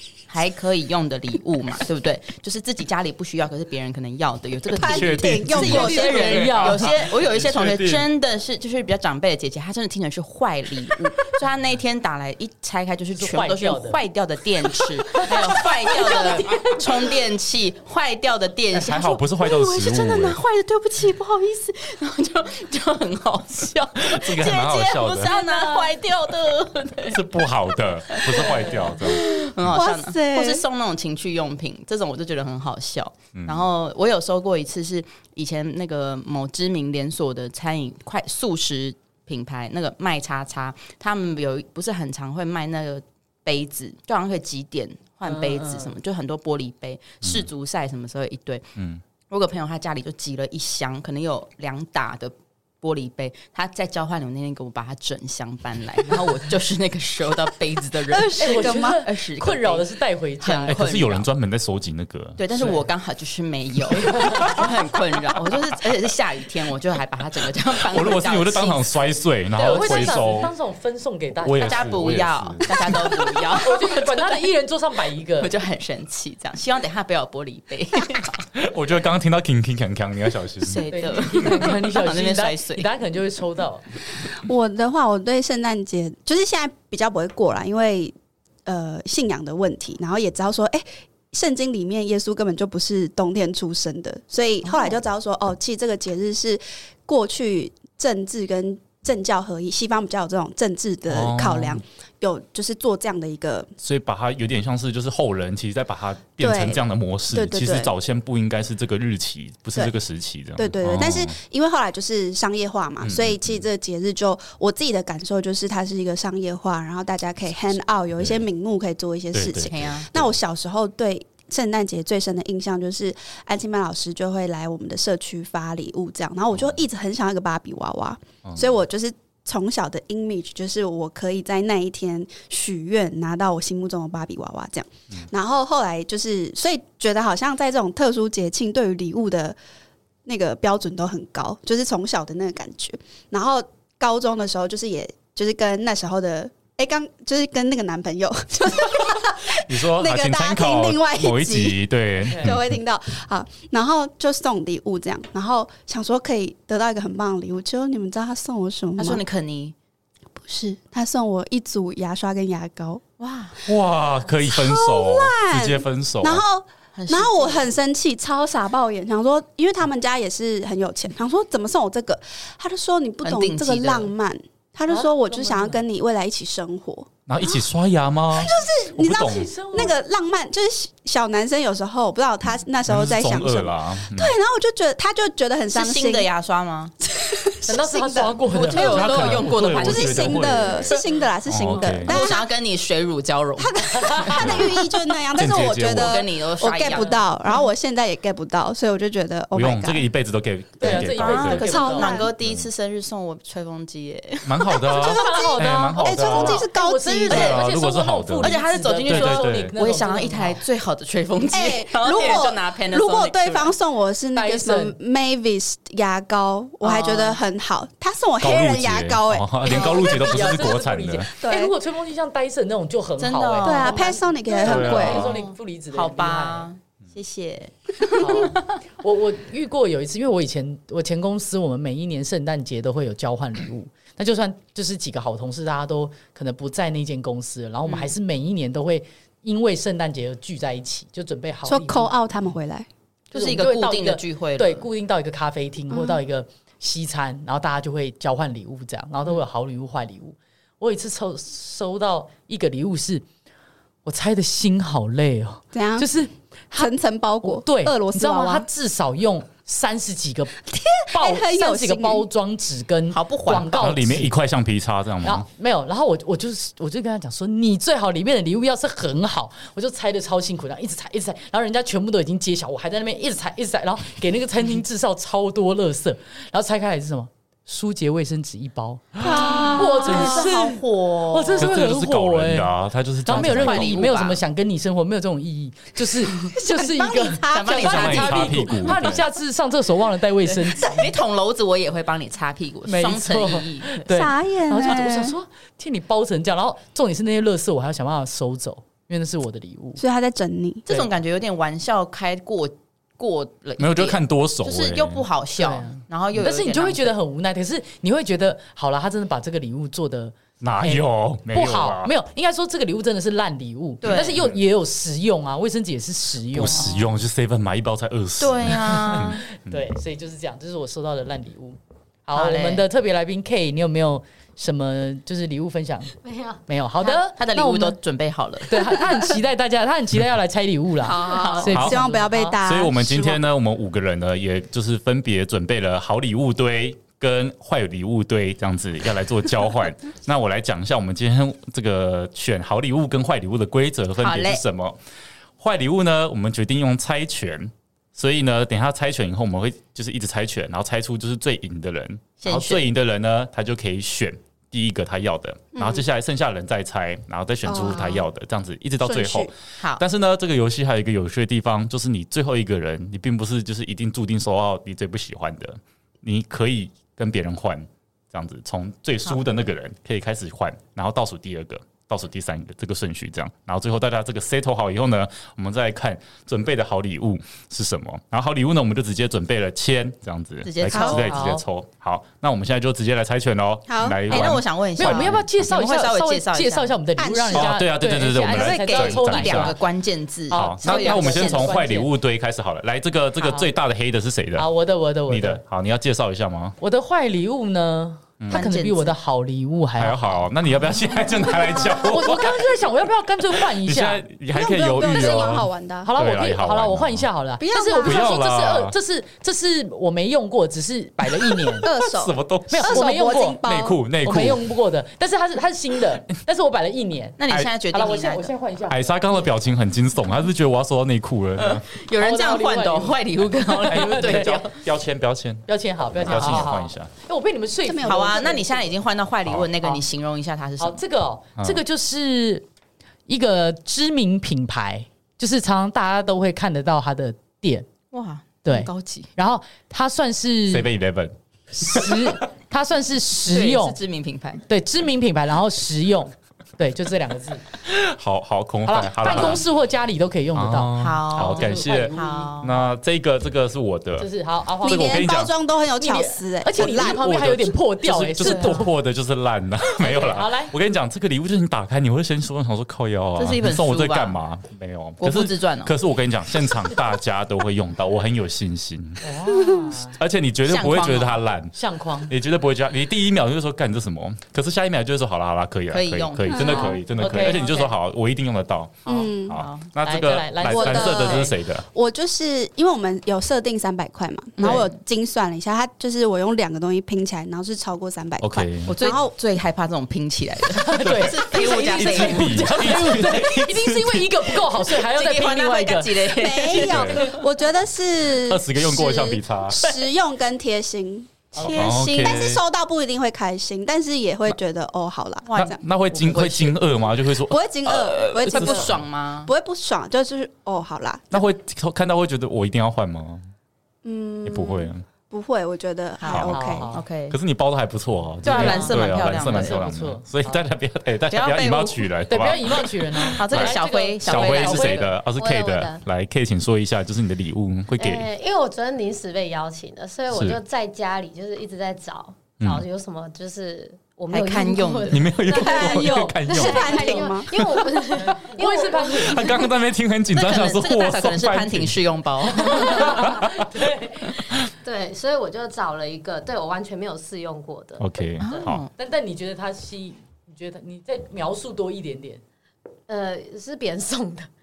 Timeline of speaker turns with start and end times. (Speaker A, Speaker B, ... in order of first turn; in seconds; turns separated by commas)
Speaker A: 0.3-27.3, Speaker B: 4.7-6.7, Speaker C: 4.8-8.1, Speaker D: 5.8-7.0, Speaker D: 13.2-14.0, Speaker D: 15.1-17.1, Speaker C: 18.7-20.4, Speaker C: 24.0-25.3, Speaker D: 25.2-25.9, Speaker C: 27.1-29.8, Speaker A: 28.1-48.7, Speaker D: 28.4-28.9, Speaker B: 29.6-30.6, Speaker C: 33.4-33.6, Speaker D: 45.2-45.9, Speaker C: 48.8-49.0, Speaker A: 49.3-59.9, Speaker B: 58.1-59.0, Speaker D: 58.4-60.8, Speaker A: 60.4-61.3, Speaker C: 60.7-62.4, Speaker A: 62.4-68.9, Speaker D: 62.6-62.8, Speaker D: 64.0-64.5, Speaker C: 64.1-64.7, Speaker C: 67.9-70.5, Speaker D: 69.5-71.9, Speaker A: 69.8-70.3, Speaker C: 71.4-73.2, Speaker A: 71.6-74.4, Speaker D: 73.6-75.5, Speaker A: 75.4-78.4, Speaker C: 78.5-80.9, Speaker A: 80.6-82.8, Speaker D: 80.9-83.8, Speaker B: 84.3-103.7, Speaker C: 101.1-101.8, Speaker C: 103.8-111.3, Speaker B: 106.4-107.9, Speaker B: 110.5-139.6, Speaker C: 113.0-113.6, Speaker C: 119.3-120.3, Speaker A: 119.7-120.1, Speaker B: 140.2-159.2, Speaker C: 149.6-152.7, Speaker A: 159.0-159.7, Speaker B: 160.3-163.0, Speaker A: 163.2-163.6, Speaker C: 163.6-166.4, Speaker B: 164.4-177.6, Speaker A: 166.9-167.7, Speaker A: 173.2-174.1, Speaker D: 174.9-175.8, Speaker C: 177.3-179.5, Speaker B: 178.3-186.3, Speaker D: 179.2-179.9, Speaker C: 182.8-184.3, Speaker A: 185.7-186.9, Speaker B: 187.1-192.5, Speaker D: 187.7-188.9, Speaker A: 188.5-191.0, Speaker C: 188.8-190.9, Speaker C: 191.5-192.2, Speaker A: 192.0-194.7, Speaker B: 193.6-200.1, Speaker D: 193.9-194.4, Speaker C: 194.4-194.7, Speaker C: 195.3-196.2, Speaker A: 195.9-197.2, Speaker D: 196.9-197.2, Speaker C: 199.5-201.7, Speaker D: 200.8-202.2, Speaker A: 200.8-204.7, Speaker B: 201.2-202.3, Speaker C: 202.4-202.7, Speaker C: 204.4-206.6, Speaker B: 204.7-207.6, Speaker D: 204.9-210.6, Speaker A: 207.3-207.6, Speaker C: 207.3-209.7, Speaker A: 208.4-213.7, Speaker B: 211.5-220.8, Speaker D: 214.3-214.9, Speaker A: 216.8-217.4, Speaker C: 218.4-221.3, Speaker D: 219.7-226.7, Speaker B: 221.4-221.7, Speaker A: 223.2-228.7, Speaker B: 223.6-225.2, Speaker C: 224.7-225.4, Speaker D: 228.1-242.1, Speaker A: 237.8-238.1, Speaker B: 241.7-242.9, Speaker A: 243.3-244.9, Speaker D: 243.3-253.2, Speaker B: 245.9-246.2, Speaker D: 254.0-260.6, Speaker B: 255.7-256.1, Speaker B: 256.7-258.7, Speaker B: 260.6-262.2, Speaker D: 261.1-264.3, Speaker A: 263.1-263.9, Speaker C: 263.7-265.4, Speaker D: 265.2-282.7, Speaker B: 279.2-280.6, Speaker A: 279.2-281.8, Speaker C: 281.6-284.1, Speaker D: 283.2-291.1, Speaker A: 283.3-284.4, Speaker B: 286.4-288.4, Speaker A: 287.5-289.2, Speaker C: 287.7-289.2, Speaker A: 290.5-294.0, Speaker D: 292.9-300.0, Speaker B: 294.1-295.4, Speaker B: 300.0-300.8, Speaker A: 300.9-307.1, Speaker C: 303.8-305.2, Speaker D: 305.6-317.1, Speaker C: 310.6-312.1, Speaker A: 314.0-314.4, Speaker C: 316.5-319.9, Speaker A: 318.4-319.4, Speaker D: 319.1-326.1, Speaker A: 322.3-322.8, Speaker E: 326.2-326.6, Speaker D: 326.7-328.0, Speaker A: 327.3-328.9, Speaker D: 328.6-332.6, Speaker A: 331.0-331.8, Speaker B: 331.1-333.4, Speaker C: 331.7-332.0, Speaker C: 332.6-345.0, Speaker A: 344.2-344.6, Speaker C: 345.6-385.4, Speaker A: 352.4-352.9, Speaker B: 357.6-358.2, Speaker B: 359.0-359.5, Speaker A: 380.6-381.5, Speaker B: 380.9-381.2, Speaker D: 381.3-381.6, Speaker B: 383.9-384.4, Speaker A: 384.3-386.9, Speaker D: 385.0-389.8, Speaker B: 387.2-387.8, Speaker C: 387.5-389.7, Speaker A: 388.4-391.9, Speaker D: 390.5-392.1, Speaker C: 390.5-394.7, Speaker D: 393.4-393.7, Speaker D: 394.6-395.6, Speaker C: 395.3-396.8, Speaker D: 396.8-400.2, Speaker A: 398.5-399.1, Speaker C: 400.0-402.6, Speaker B: 401.7-402.0, Speaker D: 401.9-404.2, Speaker C: 403.7-407.3, Speaker B: 404.5-406.1, Speaker D: 406.0-411.9, Speaker B: 407.6-408.4, Speaker C: 408.0-408.9, Speaker B: 411.7-414.0, Speaker C: 411.8-413.1, Speaker D: 412.7-413.6, Speaker C: 413.6-414.6, Speaker D: 414.2-417.4, Speaker A: 417.4-418.5, Speaker D: 417.9-419.1, Speaker C: 418.9-421.8, Speaker A: 421.6-424.8, Speaker D: 422.2-424.6, Speaker C: 423.9-427.1, Speaker D: 425.7-428.7, Speaker B: 427.9-428.8, Speaker A: 428.0-431.0, Speaker D: 430.8-432.6, Speaker D: 433.3-437.9, Speaker A: 438.1-439.3, Speaker D: 438.6-440.9, Speaker C: 440.7-442.3, Speaker D: 441.7-444.0, Speaker A: 443.4-444.6, Speaker D: 444.7-447.6, Speaker C: 447.8-449.7, Speaker D: 448.9-452.6, Speaker A: 449.3-449.6, Speaker C: 450.5-454.3, Speaker A: 451.0-452.8, Speaker D: 454.2-455.3, Speaker C: 454.8-455.5, Speaker B: 454.8-457.3, Speaker D: 456.0-458.9, Speaker C: 456.8-469.2, Speaker A: 458.4-458.8, Speaker D: 459.9-460.7, Speaker A: 463.4-464.4, Speaker A: 465.2-465.9, Speaker D: 469.2-470.1, Speaker B: 469.5-469.9, Speaker C: 470.0-471.7, Speaker A: 470.6-471.4, Speaker D: 471.7-472.3, Speaker C: 472.3-481.8, Speaker A: 475.9-477.6, Speaker B: 476.5-476.9, Speaker D: 476.6-477.9, Speaker D: 479.1-479.3, Speaker B: 479.1-479.6, Speaker A: 479.6-479.9, Speaker D: 480.0-481.5, Speaker B: 480.7-489.3, Speaker A: 484.6-484.9, Speaker C: 488.4-488.9, Speaker A: 488.9-493.2, Speaker D: 490.8-496.3, Speaker C: 491.0-494.3, Speaker A: 494.8-497.4, Speaker B: 496.3-505.8, Speaker C: 496.8-497.2, Speaker C: 498.3-499.8, Speaker C: 501.6-502.6, Speaker A: 501.7-502.2, Speaker A: 505.5-506.8, Speaker C: 505.5-509.0, Speaker B: 507.4-511.4, Speaker A: 507.9-509.5, Speaker C: 511.3-513.4, Speaker B: 514.0-516.9, Speaker C: 514.4-515.0, Speaker A: 516.2-517.4, Speaker C: 516.3-516.6, Speaker D: 516.5-517.0, Speaker C: 517.3-528.2, Speaker A: 518.4-519.9, Speaker D: 518.5-520.6, Speaker A: 521.3-522.1, Speaker D: 522.3-525.0, Speaker A: 523.3-525.1, Speaker E: 525.3-526.0, Speaker E: 528.0-539.6, Speaker C: 530.3-530.6, Speaker C: 532.6-532.9, Speaker A: 534.3-535.2, Speaker C: 535.1-537.0, Speaker B: 535.5-537.5, Speaker C: 537.5-537.8, Speaker D: 538.2-539.6, Speaker C: 539.1-542.0, Speaker A: 540.3-543.3, Speaker D: 542.5-544.3, Speaker C: 542.8-543.7, Speaker E: 544.8-548.6, Speaker C: 548.0-548.8, Speaker A: 548.4-548.9, Speaker D: 549.0-552.4, Speaker E: 553.1-554.5